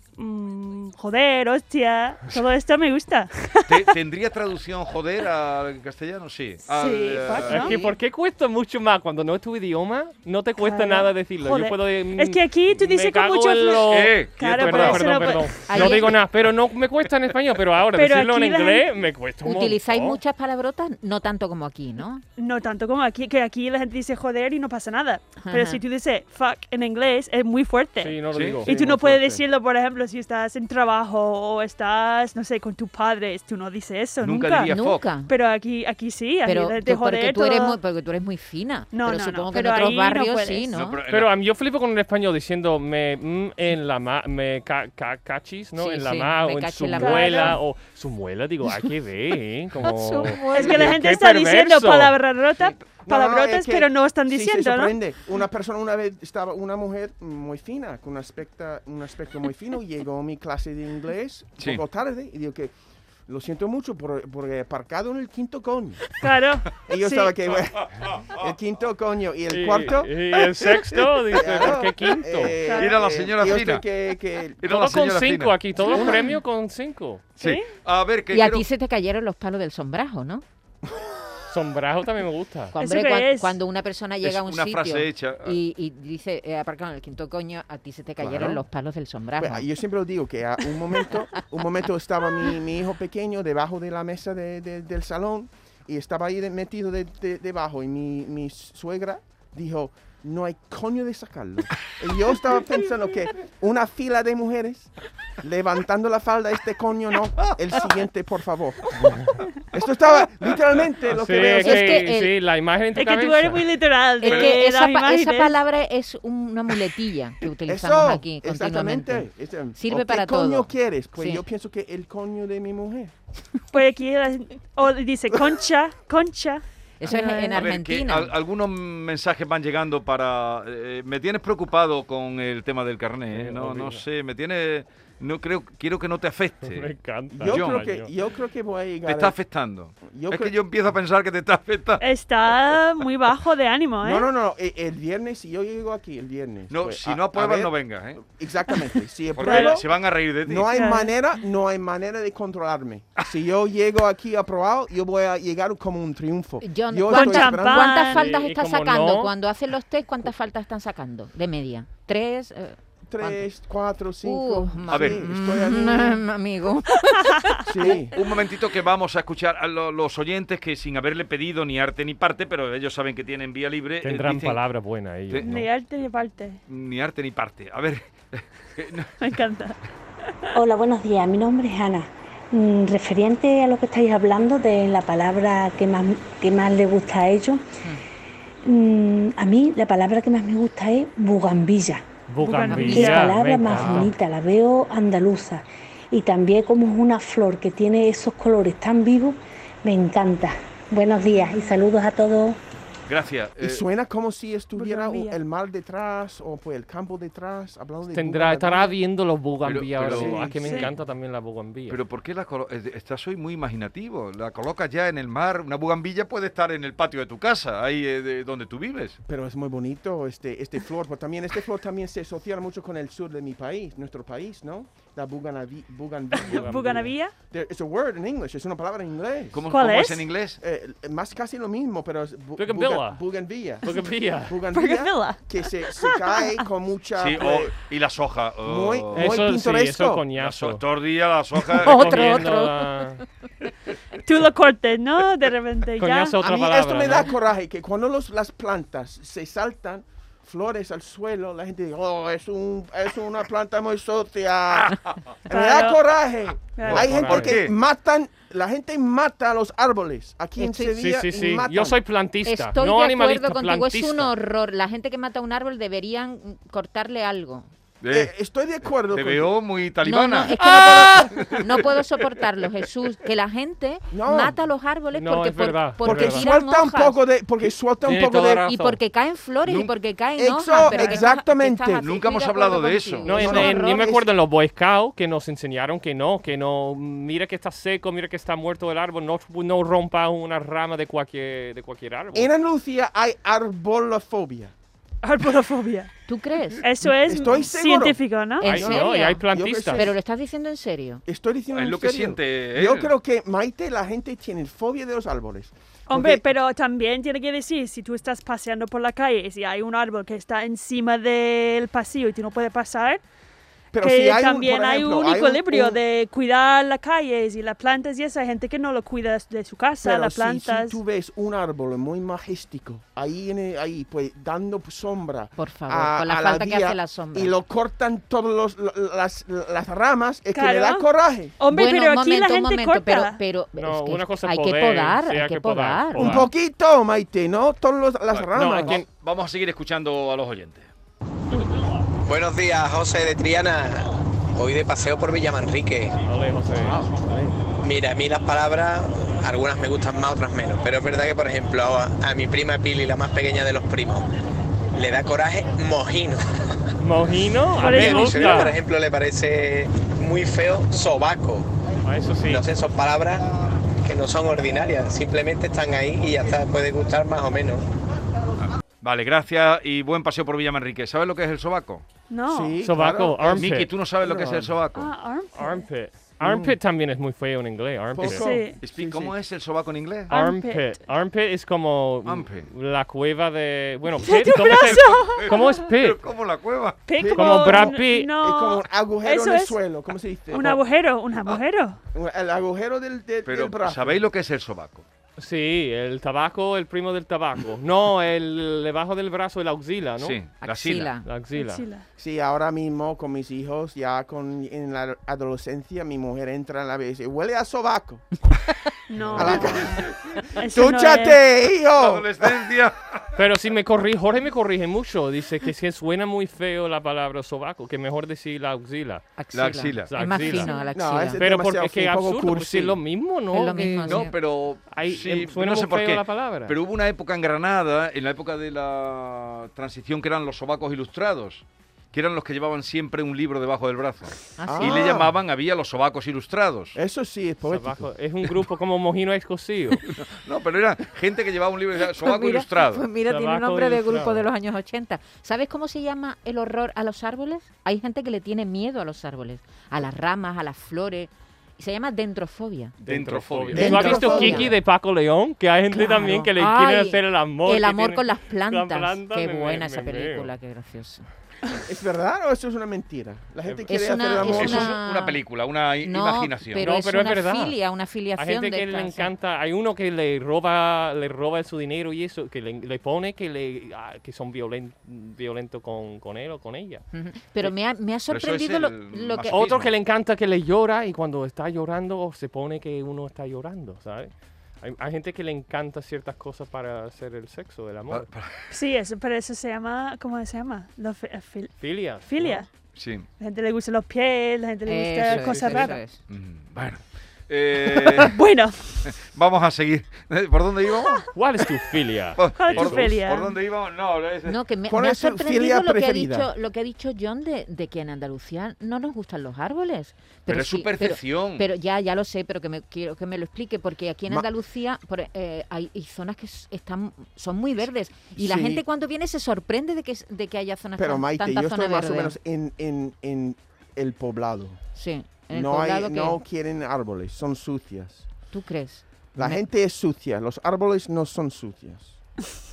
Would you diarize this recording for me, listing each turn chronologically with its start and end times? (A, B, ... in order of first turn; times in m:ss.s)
0:00.2-0:04.0 A
0:03.7-0:07.8 B
0:06.7-0:07.8 A
0:07.5-0:20.2 C
0:10.6-0:15.8 A
0:13.8-0:15.9 B
0:15.7-0:16.2 D
0:17.9-0:18.9 A
0:19.4-0:22.2 D
0:22.4-0:34.7 A
0:25.4-0:25.8 D
0:28.0-0:28.7 C
0:28.3-0:28.6 B
0:28.7-0:29.4 E
0:34.2-0:35.1 B
0:34.7-0:35.3 D
0:35.3-0:37.8 A
0:36.4-0:41.0 D
0:38.9-0:40.7 A
0:40.7-0:41.4 B
0:41.1-0:52.2 C
0:45.8-0:47.6 D
0:47.0-0:47.6 A
0:49.8-0:50.9 D
0:50.5-0:54.9 A
0:53.0-1:02.7 E
1:03.3-1:06.0 E
1:06.2-1:07.3 A
1:06.9-1:10.2 E
1:09.5-1:12.6 C
1:11.3-1:14.6 E
1:12.6-1:12.9 A
1:12.8-1:13.8 B
1:14.6-1:16.0 B
1:14.6-1:17.2 C
1:17.4-1:18.6 B
1:17.4-1:17.7 A
1:18.3-1:20.4 D
1:21.5-1:22.8 C
1:22.7-1:29.6 D
1:22.8-1:23.6 A
1:24.2-1:25.6 B
1:28.2-1:28.6 E
1:29.4-1:49.0 E
1:49.0-1:49.4 C
1:49.7-1:52.1 E
1:51.1-1:53.6 C
1:51.6-1:52.4 D
1:53.0-1:55.5 A
1:54.2-2:01.4 D
1:54.2-1:54.5 B
1:57.7-2:03.1 E
2:03.7-2:07.6 A
2:07.0-2:08.3 D
2:07.5-2:16.9 B
2:13.3-2:14.0 C
2:16.6-2:18.1 C
2:17.3-2:19.4 E
2:17.4-2:17.8 B
2:19.1-2:22.0 B
2:20.1-2:20.5 E
2:22.0-2:24.2 A
2:24.0-2:29.9 E
2:26.7-2:28.2 B
2:29.4-2:30.7 B
2:29.4-2:29.8 A
2:30.4-2:38.1 E
2:30.7-2:31.1 A
2:36.6-2:43.5 D
2:37.1-2:38.2 A
2:38.1-2:39.3 C
2:43.1-2:46.2 E
2:44.2-2:48.0 D
2:44.9-2:45.2 B
2:47.0-2:47.6 A
2:47.6-2:48.1 E
2:48.1-2:54.6 B
2:54.0-2:55.7 C
2:55.4-2:56.6 A
2:56.7-2:59.3 B
2:59.2-2:59.8 A
3:00.5-3:07.7 F
3:08.6-3:12.0 F
3:12.3-3:14.1 C
3:12.4-3:13.3 A
3:12.7-3:13.2 D
3:12.7-3:22.6 F
3:13.8-3:14.1 D
3:23.1-3:23.8 B
3:23.6-3:29.0 E
3:24.8-3:25.4 A
3:28.1-3:32.0 C
3:29.6-3:30.5 B
3:30.0-3:30.9 E
3:30.6-3:30.9 A
3:31.9-3:39.2 B
3:39.3-3:49.6 E
3:46.4-3:47.3 A
3:46.4-3:47.1 C
3:49.5-3:50.6 B
3:49.7-3:50.3 A
3:50.6-3:53.9 E
3:52.6-3:53.2 C
3:53.8-3:54.6 C
3:54.4-3:57.7 E
3:54.7-3:56.6 A
3:57.2-3:59.4 B
3:58.6-4:00.2 E
3:59.1-4:00.8 C
4:00.4-4:02.4 B
4:01.7-4:03.2 C
4:01.8-4:03.1 D
4:04.2-4:06.4 A
4:06.0-4:07.3 C
4:06.4-4:22.0 E
4:14.8-4:15.2 B
4:15.5-4:16.0 A
4:16.8-4:17.1 A
4:16.9-4:17.5 C
4:16.9-4:17.7 B
4:20.6-4:20.9 D
4:20.9-4:24.3 C
4:22.4-4:27.7 D
4:28.0-4:28.3 B
4:28.1-4:29.5 E
4:29.1-4:32.0 B
4:30.0-4:37.2 D
4:34.1-4:34.6 E
4:35.1-4:36.4 C
4:36.0-4:38.7 E
4:38.0-4:39.0 C
4:38.6-4:44.1 D
4:39.6-4:39.9 B
4:40.4-4:42.1 E
4:42.0-4:43.5 B
4:43.2-4:52.5 C
4:43.3-4:44.3 E
4:52.3-4:54.7 E
4:55.2-4:56.1 A
4:56.3-4:56.9 D
4:56.8-4:58.6 A
4:57.2-5:00.2 E
4:58.6-5:01.2 D
4:58.6-5:00.1 C
5:01.2-5:06.4 E
5:01.7-5:03.1 B
5:06.1-5:13.2 A
5:13.9-5:16.0 E
5:14.0-5:21.0 A
5:20.0-5:31.5 E
5:25.6-5:27.5 D
5:30.5-5:31.1 A
5:31.6-5:33.4 A
5:31.7-5:36.4 D
5:33.8-5:36.5 C
5:36.2-5:39.0 E
5:38.3-5:40.9 B
5:38.6-5:39.1 C
5:42.2-5:46.1 G
5:46.3-5:47.0 C
5:46.8-5:47.6 E
5:47.8-5:54.3 G
5:54.9-5:56.4 G
5:57.0-5:58.8 C
5:57.8-5:58.8 A
5:58.0-6:01.7 G
6:02.0-6:02.6 C
6:02.4-6:03.4 G
6:04.0-6:07.8 G
6:08.6-6:12.0 B
6:12.3-6:12.8 A
6:12.5-6:14.8 E
6:12.8-6:13.9 C
6:13.6-6:15.1 B
6:14.9-6:15.9 A
6:15.6-6:18.5 C
6:16.4-6:16.8 E
6:18.1-6:19.4 E
6:18.3-6:18.8 A
6:18.8-6:20.3 B
6:20.3-6:21.0 A
6:20.3-6:26.2 C
6:22.2-6:22.7 B
6:24.2-6:25.7 A
6:24.8-6:27.0 B
6:27.1-6:29.8 A
6:27.2-6:30.8 E
6:27.3-6:28.3 C
6:30.5-6:32.0 A
6:32.1-6:34.2 E
6:33.4-6:35.0 B
6:35.4-6:40.4 C
6:40.2-6:41.1 B
6:40.6-6:41.3 D
6:41.2-6:41.8 C
6:41.5-6:42.0 A
6:42.2-6:48.3 E
6:49.1-6:49.9 A
6:49.2-6:49.6 C
6:49.4-6:50.0 E
6:49.4-6:50.4 B
6:50.6-6:51.4 A
6:50.7-6:52.5 E
6:52.0-6:53.4 B
6:53.4-6:59.2 C
6:59.4-7:01.4 D
6:59.5-7:00.6 B
7:00.1-7:00.7 C
7:00.6-7:00.9 A
7:00.9-7:03.0 E
7:01.4-7:04.3 C
7:03.5-7:04.3 D
7:04.1-7:17.0 B
7:04.9-7:06.8 C
7:14.6-7:15.2 D
7:14.6-7:15.3 E
7:16.9-7:18.1 E
7:17.7-7:20.0 C
7:20.1-7:23.1 B
7:22.2-7:33.0 D
7:23.3-7:24.4 C
7:33.0-7:40.5 C
7:33.0-7:34.6 B
7:33.7-7:34.8 D
7:33.8-7:34.7 E
7:35.9-7:41.3 D
7:41.9-7:45.0 E
7:43.9-7:45.4 D
7:44.4-7:46.8 B
7:46.0-7:49.3 D
7:46.8-7:47.8 C
7:48.4-7:57.0 C
7:57.1-7:59.6 D
7:58.3-7:59.9 B
7:59.5-8:08.3 C
8:08.1-8:08.7 B
8:08.7-8:12.7 A
8:11.8-8:12.6 C
8:12.9-8:13.3 B
8:13.4-8:16.0 A
8:14.9-8:16.2 D
8:15.3-8:15.9 C
8:16.3-8:18.4 B
8:18.1-8:19.1 A
8:19.0-8:21.3 B
8:21.4-8:23.1 C
8:22.4-8:24.6 B
8:22.6-8:23.6 A
8:24.5-8:42.4 D
8:24.9-8:26.5 E
8:30.5-8:31.6 B
8:38.4-8:38.8 E
8:41.0-8:44.8 E
8:44.9-8:46.4 D
8:45.5-8:48.3 E
8:48.5-8:49.6 D
8:49.4-8:52.2 E